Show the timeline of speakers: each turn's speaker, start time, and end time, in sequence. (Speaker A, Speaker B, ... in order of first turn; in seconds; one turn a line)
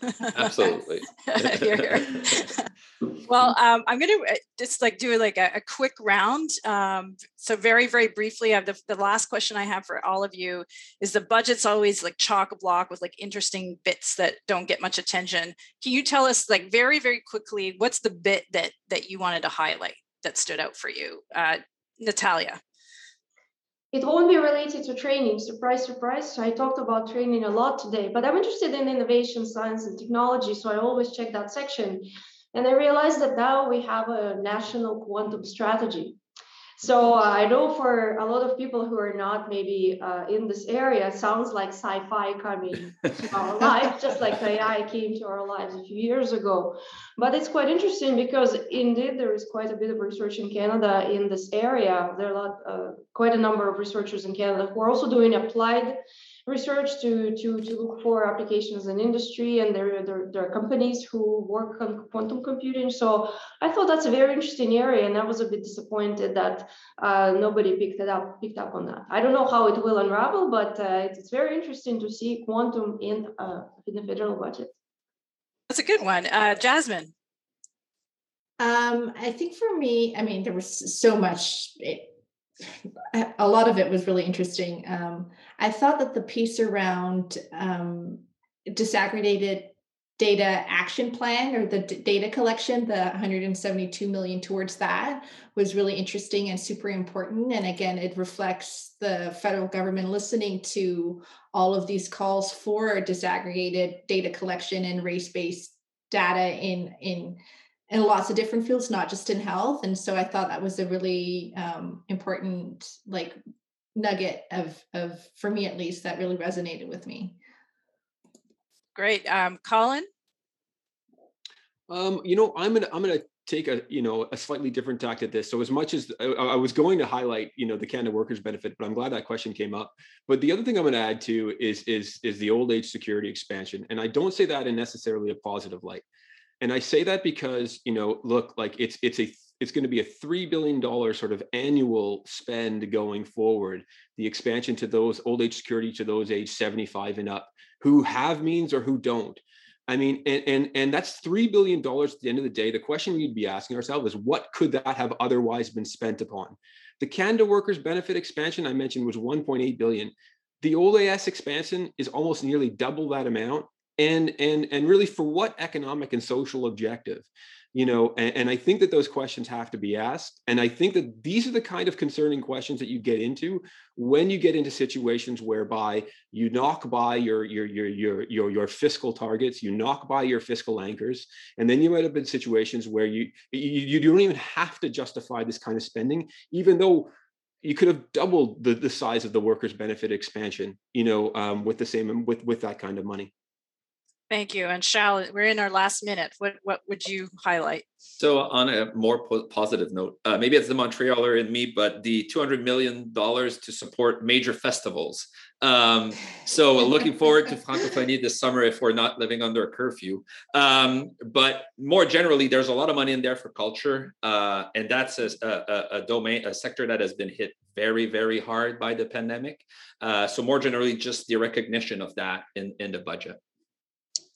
Speaker A: 0.1-22.6
Speaker B: 0.3-2.0
Speaker C: 23.9-36.2
Speaker C: 36.8-74.7
Speaker A: 75.7-77.1
Speaker D: 78.6-82.1
Speaker D: 83.1-113.4
Speaker D: 113.9-117.4
Speaker A: 118.9-120.1
Speaker E: 121.9-136.0
Speaker E: 136.6-187.1
Speaker E: 187.6-193.3
Speaker A: 194.3-197.8
Speaker B: 198.2-223.4